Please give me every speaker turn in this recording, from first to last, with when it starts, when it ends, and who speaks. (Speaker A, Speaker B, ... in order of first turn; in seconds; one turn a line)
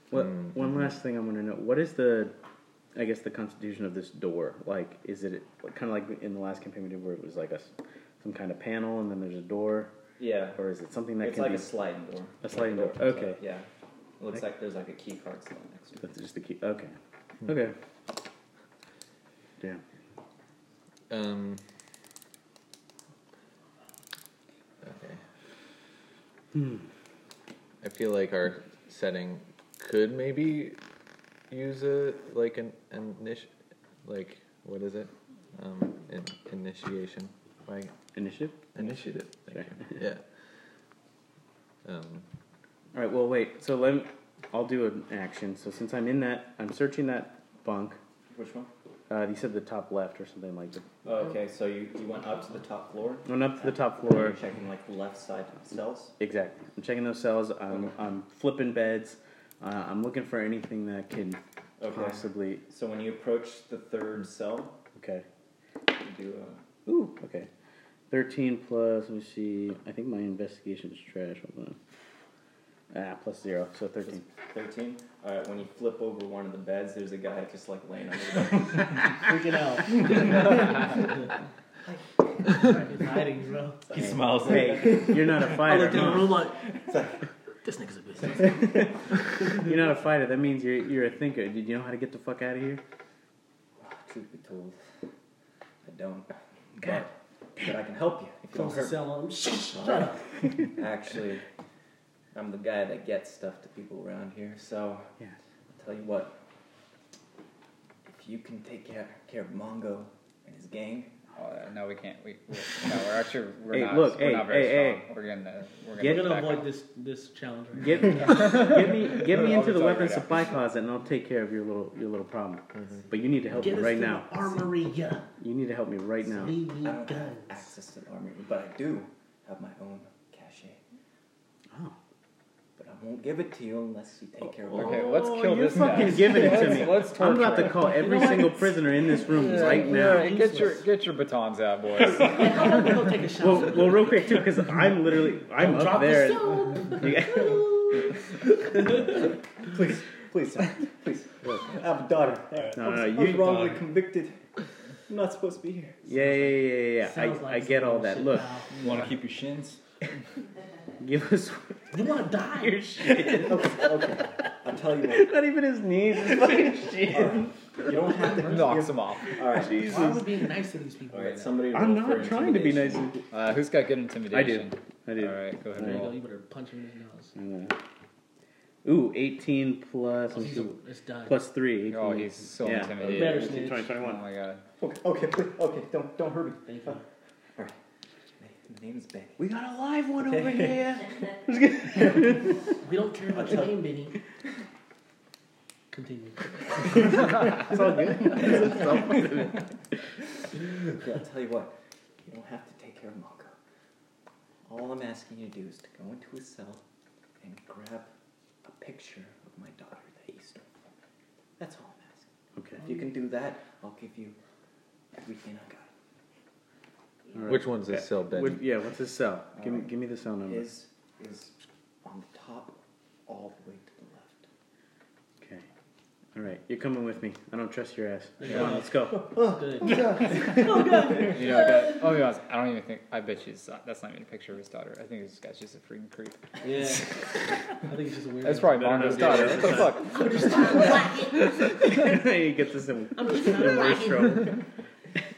Speaker A: 0.1-2.3
Speaker B: 0.1-0.5
Speaker A: 2.9-7.7
Speaker A: 8.2-9.9
Speaker C: 10.2-10.6
Speaker A: 10.6-11.7
Speaker C: 11.2-13.7
Speaker A: 12.4-13.4
Speaker C: 14.2-16.1
Speaker A: 16.0-16.9
Speaker A: 17.4-17.8
Speaker B: 21.1-21.6
Speaker B: 24.8-25.2
Speaker A: 26.5-26.8
Speaker B: 27.8-30.8
Speaker B: 31.5-33.5
Speaker B: 34.0-37.9
Speaker A: 38.1-38.6
Speaker B: 38.7-40.2
Speaker B: 41.8-42.2
Speaker A: 42.9-48.0
Speaker C: 48.3-48.7
Speaker A: 49.1-50.9
Speaker C: 51.0-56.1
Speaker A: 53.2-54.4
Speaker A: 56.2-62.6
Speaker C: 61.8-64.7
Speaker A: 64.9-65.2
Speaker C: 66.0-66.6
Speaker A: 66.8-67.5
Speaker A: 68.1-71.8
Speaker A: 72.9-74.2
Speaker C: 74.0-78.9
Speaker D: 79.2-81.1
Speaker D: 82.5-84.5
Speaker E: 83.9-84.8
Speaker C: 84.0-85.5
Speaker A: 84.4-86.5
Speaker D: 85.5-86.7
Speaker C: 86.9-87.1
Speaker D: 87.6-88.8
Speaker A: 89.5-92.8
Speaker C: 93.8-94.8
Speaker C: 95.8-99.0
Speaker D: 98.5-100.3
Speaker C: 99.7-101.4
Speaker C: 102.3-105.1
Speaker C: 105.7-106.4
Speaker C: 108.0-111.1
Speaker F: 111.3-116.7
Speaker A: 113.7-115.0
Speaker D: 116.0-118.9
Speaker A: 116.0-116.4
Speaker A: 117.8-124.6
Speaker F: 118.2-120.6
Speaker D: 123.5-125.3
Speaker A: 125.4-126.6
Speaker D: 126.2-127.7
Speaker C: 126.8-130.8
Speaker C: 132.8-135.3
Speaker F: 134.7-138.3
Speaker A: 134.7-140.5
Speaker D: 137.8-140.9
Speaker F: 139.2-142.9
Speaker D: 142.0-144.5
Speaker A: 143.4-148.1
Speaker D: 145.5-147.7
Speaker C: 149.7-154.4
Speaker E: 152.6-153.8
Speaker A: 152.7-153.7
Speaker C: 155.1-156.0
Speaker A: 156.1-158.6
Speaker D: 156.1-158.8
Speaker E: 158.8-159.8
Speaker A: 161.0-164.2
Speaker D: 161.9-163.6
Speaker C: 163.4-165.3
Speaker A: 165.1-167.8
Speaker C: 167.1-170.0
Speaker F: 168.4-169.4
Speaker A: 169.5-170.3
Speaker D: 169.7-171.8
Speaker C: 171.1-173.1
Speaker A: 171.7-173.3
Speaker F: 173.3-176.2
Speaker A: 174.3-176.1
Speaker D: 175.8-177.3
Speaker A: 177.3-177.8
Speaker A: 178.8-184.2
Speaker D: 180.3-181.5
Speaker F: 181.8-184.6
Speaker D: 183.0-183.9
Speaker C: 184.8-186.9
Speaker D: 186.7-187.0
Speaker C: 188.4-189.4
Speaker A: 189.4-192.6
Speaker C: 190.2-191.0
Speaker D: 192.8-194.2
Speaker C: 193.3-193.7
Speaker D: 195.9-197.2
Speaker A: 197.1-199.7
Speaker C: 200.8-201.7
Speaker C: 202.2-203.5
Speaker C: 204.7-206.8
Speaker C: 207.4-208.1
Speaker C: 208.6-210.7
Speaker C: 211.6-212.3
Speaker A: 212.6-212.8
Speaker C: 212.8-214.3
Speaker C: 215.2-215.9
Speaker A: 217.3-220.7
Speaker B: 217.5-218.6
Speaker C: 220.4-224.4
Speaker A: 226.3-229.3
Speaker D: 228.4-232.2
Speaker C: 229.1-231.3
Speaker F: 231.3-236.6
Speaker D: 236.6-237.1
Speaker D: 237.8-241.5
Speaker F: 238.4-240.7
Speaker A: 238.9-244.6
Speaker D: 243.1-244.6